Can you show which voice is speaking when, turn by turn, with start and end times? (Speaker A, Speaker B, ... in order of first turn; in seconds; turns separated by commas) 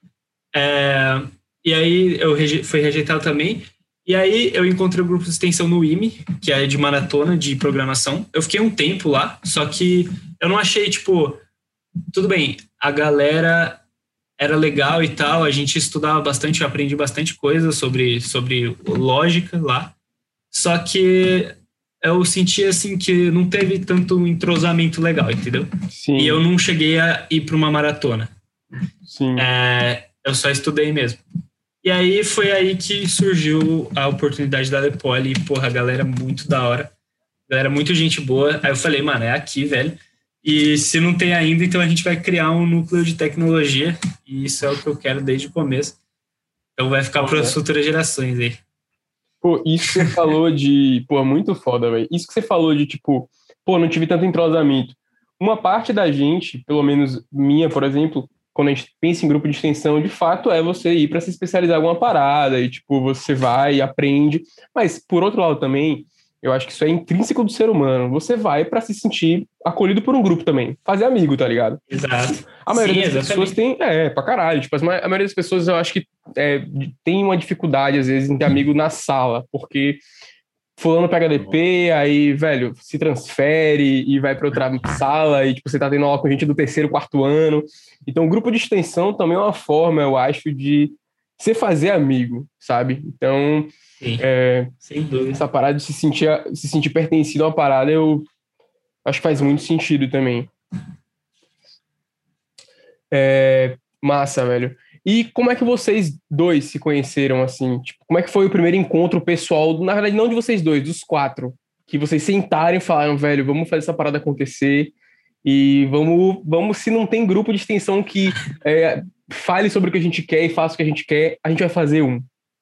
Speaker A: 0.5-11.4, Speaker A: 12.1-13.8, Speaker A: 14.4-19.9, Speaker A: 20.5-28.3, Speaker B: 25.9-26.4, Speaker B: 29.1-29.4, Speaker A: 29.4-31.2, Speaker A: 31.8-36.9, Speaker A: 37.5-46.0, Speaker A: 46.8-48.6, Speaker B: 47.2-47.5, Speaker B: 49.4-71.8, Speaker A: 71.9-73.5, Speaker B: 72.6-80.0, Speaker B: 80.8-93.7, Speaker B: 94.2-94.7, Speaker A: 94.8-95.4, Speaker B: 95.3-98.2, Speaker B: 99.0-100.5, Speaker B: 103.1-122.2